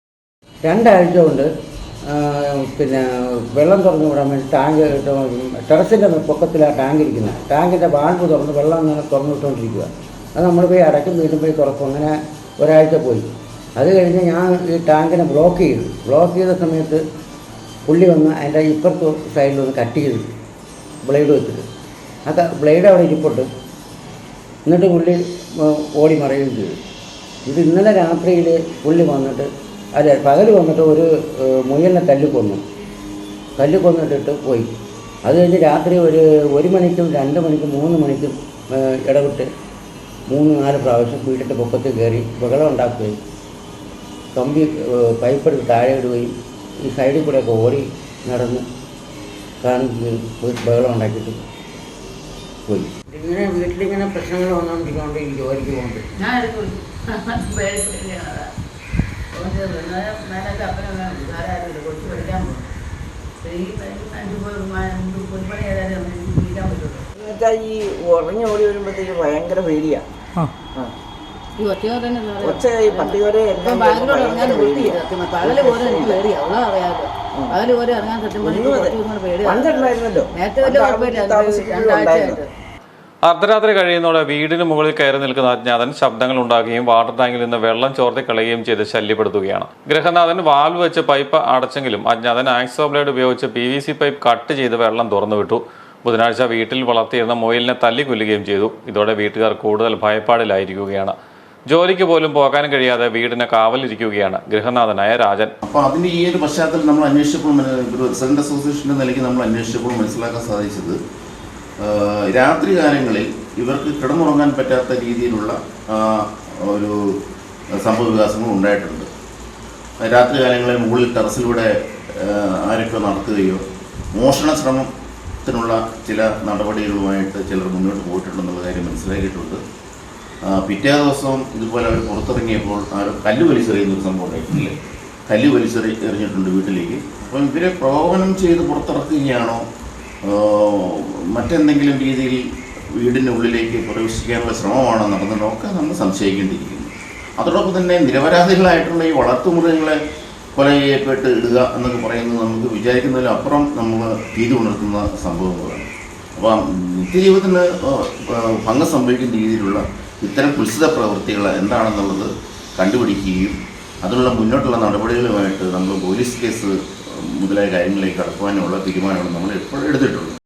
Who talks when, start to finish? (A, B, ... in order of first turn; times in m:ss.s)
0:00.6-0:01.5 A
0:02.1-0:17.0 A
0:17.9-0:20.3 A
0:21.0-0:21.6 A
0:22.3-0:23.5 A
0:24.6-0:26.7 A
0:27.4-0:32.6 A
0:33.6-0:34.7 A
0:35.2-0:39.5 A
0:40.3-0:43.2 A
0:44.3-0:46.3 A
0:46.8-0:48.6 A
0:49.6-0:51.4 A
0:52.7-0:56.1 A
0:56.2-0:58.5 B
0:59.3-1:02.6 B
1:03.4-1:07.0 B
1:07.2-1:10.0 C
1:11.6-1:22.5 B
1:12.4-1:16.2 C
1:18.4-1:22.4 C
1:23.2-1:41.1 D
1:41.7-1:45.5 D
1:45.6-1:51.0 E
1:51.8-1:56.9 E
1:57.8-1:59.1 E
2:00.0-2:03.6 E
2:04.1-2:04.9 E
2:05.4-2:09.6 E
2:10.4-2:14.8 E
2:15.3-2:19.6 E
2:20.2-2:22.4 E
2:22.9-2:30.0 E
2:30.6-2:50.3 E